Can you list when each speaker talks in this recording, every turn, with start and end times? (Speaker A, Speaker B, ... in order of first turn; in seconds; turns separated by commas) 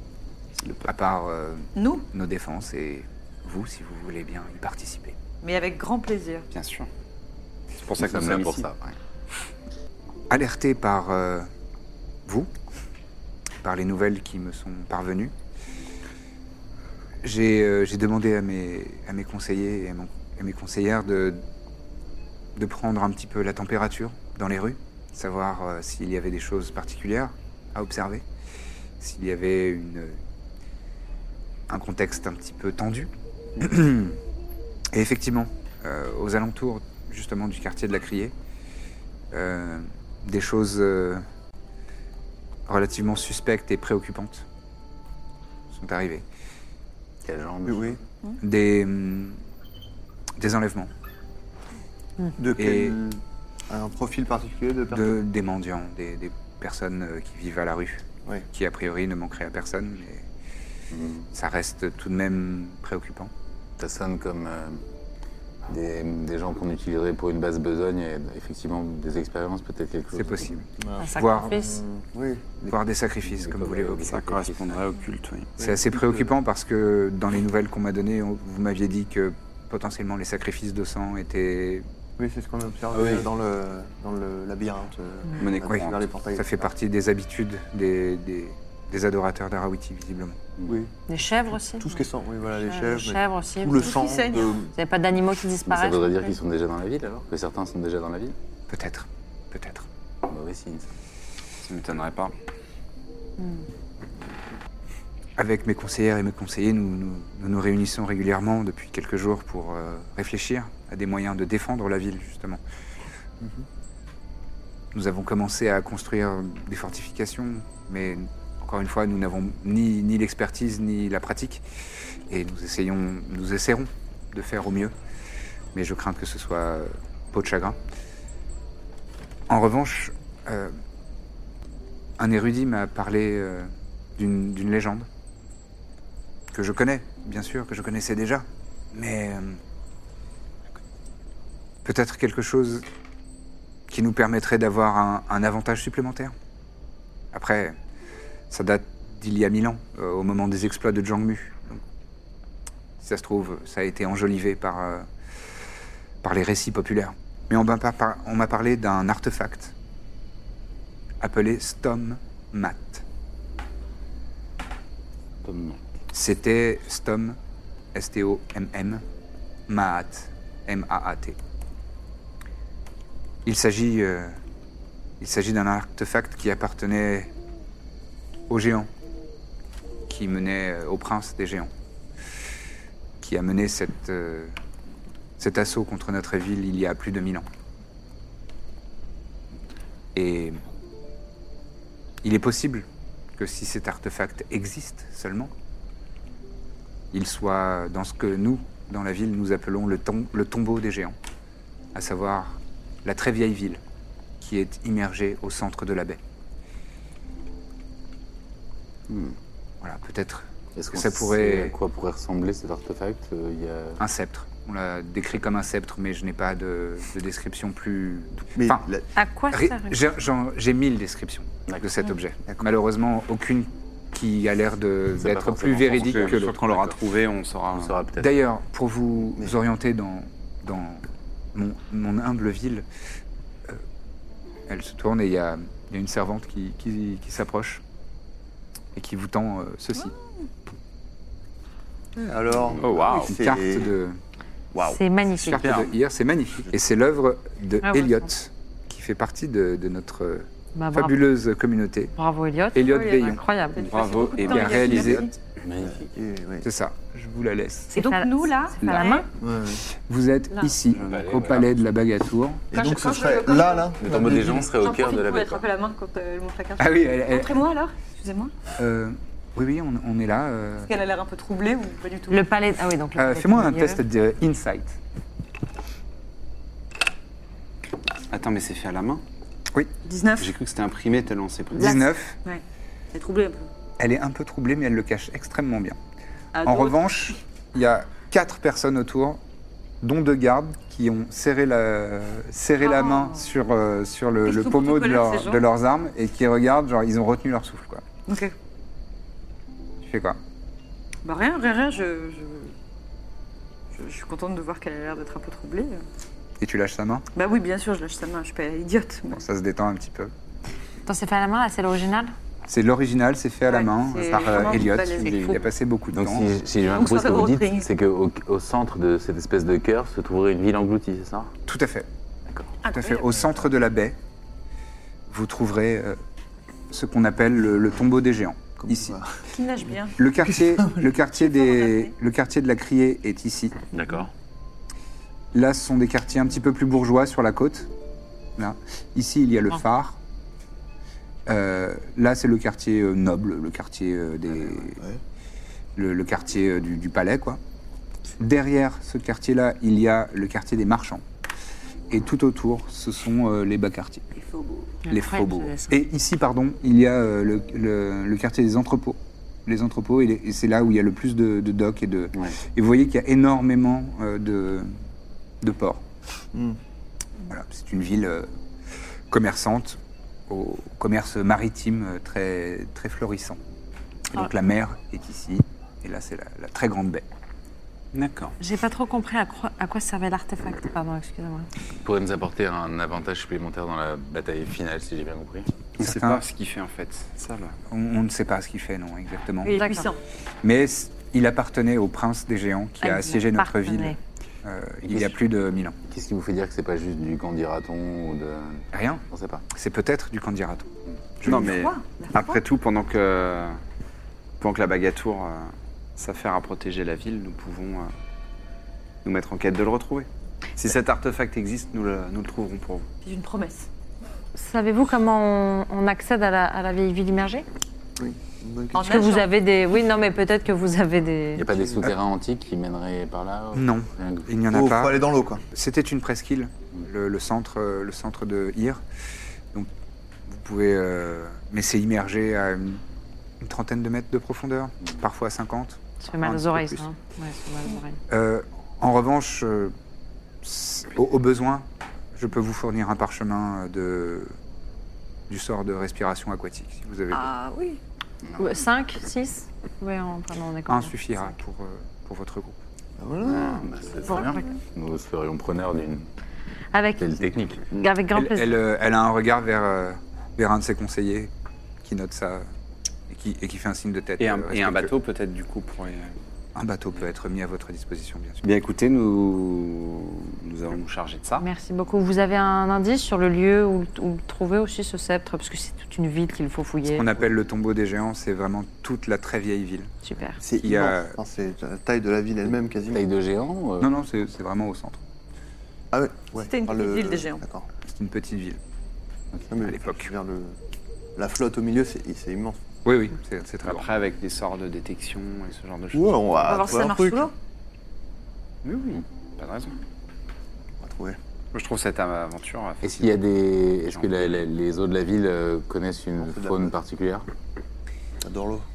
Speaker A: 0.6-0.9, Speaker B: 0.8-5.2, Speaker C: 1.7-2.1, Speaker C: 5.4-6.5, Speaker A: 6.5-6.9, Speaker A: 7.8-8.7, Speaker D: 8.0-9.0, Speaker B: 10.3-11.5, Speaker B: 13.6-15.3, Speaker B: 17.2-21.4, Speaker B: 22.6-28.2, Speaker B: 29.0-30.2, Speaker B: 31.7-34.2, Speaker B: 34.9-38.3, Speaker B: 39.3-41.2, Speaker B: 42.7-44.5, Speaker B: 45.7-46.2, Speaker D: 47.2-48.0, Speaker E: 47.6-48.0, Speaker B: 48.4-49.4, Speaker B: 50.4-50.9, Speaker E: 52.4-55.1, Speaker B: 52.6-53.0, Speaker B: 54.9-60.3, Speaker D: 60.9-61.3, Speaker B: 61.3-63.3, Speaker D: 63.8-64.8, Speaker D: 65.7-70.6, Speaker B: 70.1-71.6, Speaker E: 70.8-72.7, Speaker F: 71.0-71.8, Speaker B: 72.7-74.1, Speaker D: 73.2-74.8, Speaker A: 74.0-75.5, Speaker E: 75.6-76.2, Speaker B: 75.6-81.8, Speaker E: 82.2-86.6, Speaker A: 83.0-83.2, Speaker A: 85.4-86.0, Speaker B: 85.7-90.4, Speaker E: 90.6-90.9, Speaker F: 91.1-92.0, Speaker E: 91.8-94.7, Speaker F: 92.6-93.9, Speaker C: 93.8-94.6, Speaker F: 94.7-96.4, Speaker D: 95.6-98.3, Speaker B: 98.7-99.9, Speaker D: 100.2-100.9, Speaker A: 101.6-102.3, Speaker F: 103.4-103.6, Speaker B: 105.4-112.6, Speaker B: 114.9-121.6, Speaker B: 122.3-124.9, Speaker B: 125.7-127.8, Speaker B: 129.5-130.8, Speaker B: 132.2-135.1, Speaker B: 136.5-139.6, Speaker B: 141.8-142.8, Speaker B: 143.9-146.3, Speaker B: 147.3-147.8, Speaker B: 148.5-151.8, Speaker B: 153.0-155.1, Speaker B: 156.2-159.7, Speaker B: 161.2-163.0, Speaker D: 165.4-165.8, Speaker B: 166.1-167.4, Speaker B: 167.9-169.0, Speaker B: 169.7-171.4, Speaker B: 173.4-174.4, Speaker B: 175.2-177.3, Speaker B: 178.5-178.9, Speaker B: 180.1-181.7, Speaker B: 183.2-184.6, Speaker B: 185.4-187.5, Speaker B: 190.1-190.6, Speaker B: 192.2-192.8, Speaker B: 193.4-195.5, Speaker B: 197.1-201.2, Speaker B: 201.9-203.8, Speaker B: 204.4-206.2, Speaker D: 209.1-209.3, Speaker B: 209.8-211.7, Speaker D: 210.8-214.0, Speaker B: 214.0-218.8, Speaker E: 218.6-219.1, Speaker F: 219.2-220.0, Speaker B: 219.5-226.6, Speaker D: 225.2-227.0, Speaker A: 225.9-228.0, Speaker D: 227.7-228.3, Speaker B: 228.2-232.8, Speaker B: 234.7-237.8, Speaker B: 238.9-240.1, Speaker E: 242.2-243.9, Speaker D: 242.7-243.2, Speaker A: 242.8-243.3, Speaker B: 243.3-244.2, Speaker E: 244.7-245.0, Speaker F: 244.9-245.7, Speaker B: 245.4-252.1, Speaker F: 247.8-248.3, Speaker F: 250.7-251.2, Speaker F: 252.2-253.9, Speaker B: 252.7-253.4, Speaker C: 252.8-255.3, Speaker A: 253.7-255.3, Speaker B: 254.4-255.3, Speaker D: 255.6-256.1, Speaker E: 255.8-256.6, Speaker B: 256.6-257.9, Speaker F: 257.9-259.2, Speaker C: 257.9-259.3, Speaker B: 258.8-259.1, Speaker E: 259.4-259.8, Speaker B: 259.9-262.6, Speaker D: 260.9-261.7, Speaker A: 260.9-261.6, Speaker C: 262.7-264.0, Speaker E: 262.7-264.7, Speaker D: 264.0-265.6, Speaker C: 264.6-268.5, Speaker B: 266.8-267.5, Speaker B: 268.8-270.9, Speaker C: 270.8-272.4, Speaker F: 272.3-274.0, Speaker B: 273.1-275.0, Speaker A: 278.3-279.2, Speaker C: 280.0-280.5, Speaker A: 280.4-281.9, Speaker B: 281.8-282.4, Speaker C: 281.8-283.7, Speaker B: 284.0-286.0, Speaker C: 286.5-287.3, Speaker B: 286.6-289.4, Speaker B: 290.0-298.0, Speaker C: 292.8-293.5, Speaker C: 294.4-295.6, Speaker C: 298.3-298.5, Speaker B: 300.0-300.4, Speaker C: 301.2-302.7, Speaker C: 303.9-306.0, Speaker B: 306.6-307.2, Speaker C: 307.3-309.4, Speaker B: 309.3-310.3, Speaker F: 311.1-312.3, Speaker B: 312.7-316.5, Speaker C: 313.6-315.6, Speaker D: 316.1-321.5, Speaker C: 316.9-317.9, Speaker B: 321.7-322.1, Speaker C: 322.8-323.4, Speaker B: 322.8-324.1, Speaker B: 325.3-326.2, Speaker B: 326.9-329.2, Speaker E: 328.8-329.4, Speaker C: 329.5-330.2, Speaker B: 330.2-333.8, Speaker E: 330.4-331.1, Speaker C: 331.2-332.1, Speaker D: 333.9-334.2, Speaker B: 335.5-337.9, Speaker B: 338.6-340.2, Speaker B: 341.5-345.0, Speaker B: 345.9-347.6, Speaker B: 348.4-351.2, Speaker B: 352.1-354.3, Speaker F: 355.1-355.9, Speaker B: 355.1-364.9, Speaker B: 365.6-366.0, Speaker B: 367.5-368.5, Speaker B: 369.3-373.6, Speaker B: 374.3-377.2, Speaker A: 378.1-378.6, Speaker F: 378.6-381.7, Speaker D: 382.0-385.7, Speaker B: 386.0-386.4, Speaker A: 386.0-387.8, Speaker B: 387.9-389.7, Speaker C: 389.6-390.2, Speaker F: 389.8-390.1, Speaker B: 390.6-396.0, Speaker F: 393.0-394.2, Speaker D: 395.0-395.4, Speaker D: 396.0-399.6, Speaker B: 398.9-400.9, Speaker B: 401.4-401.7, Speaker A: 401.4-403.8, Speaker C: 401.6-402.5, Speaker A: 404.6-408.1, Speaker A: 409.2-413.1, Speaker C: 413.2-413.9, Speaker F: 414.5-417.6, Speaker E: 418.2-419.0, Speaker C: 418.9-419.5, Speaker F: 419.0-421.7, Speaker D: 421.5-424.5, Speaker B: 423.7-429.0, Speaker E: 424.7-425.6, Speaker B: 430.5-433.0, Speaker B: 433.6-437.1, Speaker F: 436.2-438.2, Speaker B: 438.3-439.9, Speaker B: 440.6-444.5, Speaker B: 445.5-447.4, Speaker C: 447.3-448.0, Speaker F: 448.6-451.5, Speaker B: 450.9-452.8, Speaker E: 453.2-453.9, Speaker D: 453.4-456.3, Speaker C: 454.3-454.6, Speaker F: 456.9-457.2, Speaker D: 457.2-457.8, Speaker F: 457.9-458.8, Speaker B: 458.3-461.5, Speaker B: 462.0-462.7, Speaker B: 463.3-465.1, Speaker A: 464.4-466.4, Speaker B: 466.7-468.7, Speaker A: 468.6-471.6, Speaker F: 471.6-477.3, Speaker B: 477.1-480.1, Speaker F: 480.2-480.6, Speaker E: 480.6-483.2, Speaker B: 480.8-481.4, Speaker D: 483.1-484.1, Speaker B: 484.0-485.2, Speaker E: 486.1-487.9, Speaker C: 486.6-487.6, Speaker B: 488.1-488.8, Speaker E: 489.7-490.8, Speaker B: 489.8-490.3, Speaker E: 491.4-492.8, Speaker B: 493.0-494.0, Speaker A: 493.8-496.9, Speaker E: 496.1-497.5, Speaker C: 496.6-497.5, Speaker A: 498.8-499.9, Speaker E: 501.0-501.4, Speaker A: 501.7-503.4, Speaker D: 503.0-507.4, Speaker A: 504.0-504.6, Speaker E: 506.4-506.9, Speaker E: 508.4-508.9